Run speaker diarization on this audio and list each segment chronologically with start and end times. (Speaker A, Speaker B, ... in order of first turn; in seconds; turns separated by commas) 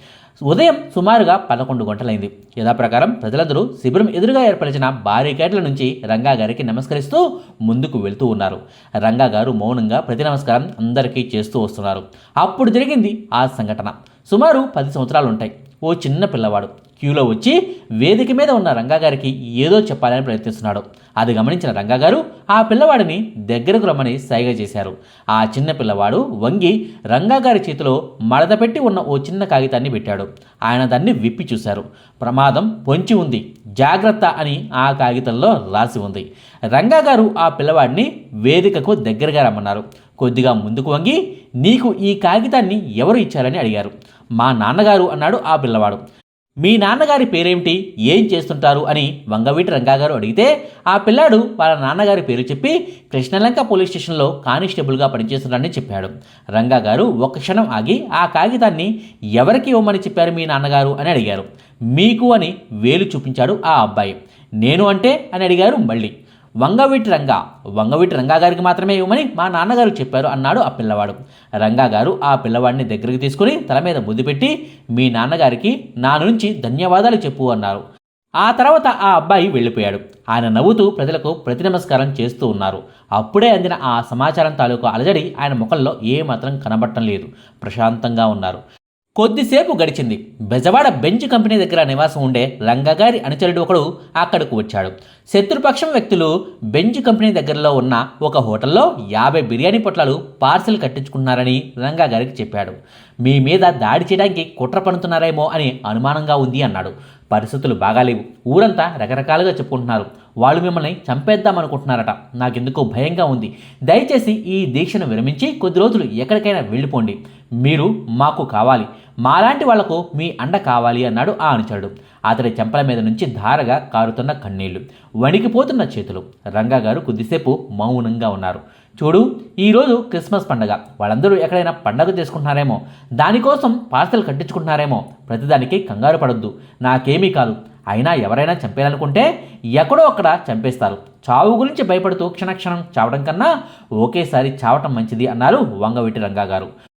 Speaker A: 0.5-46.0, Speaker A: 46.6-66.1, Speaker A: 66.6-77.8, Speaker A: 78.4-88.6, Speaker A: 89.2-143.5, Speaker A: 144.0-146.7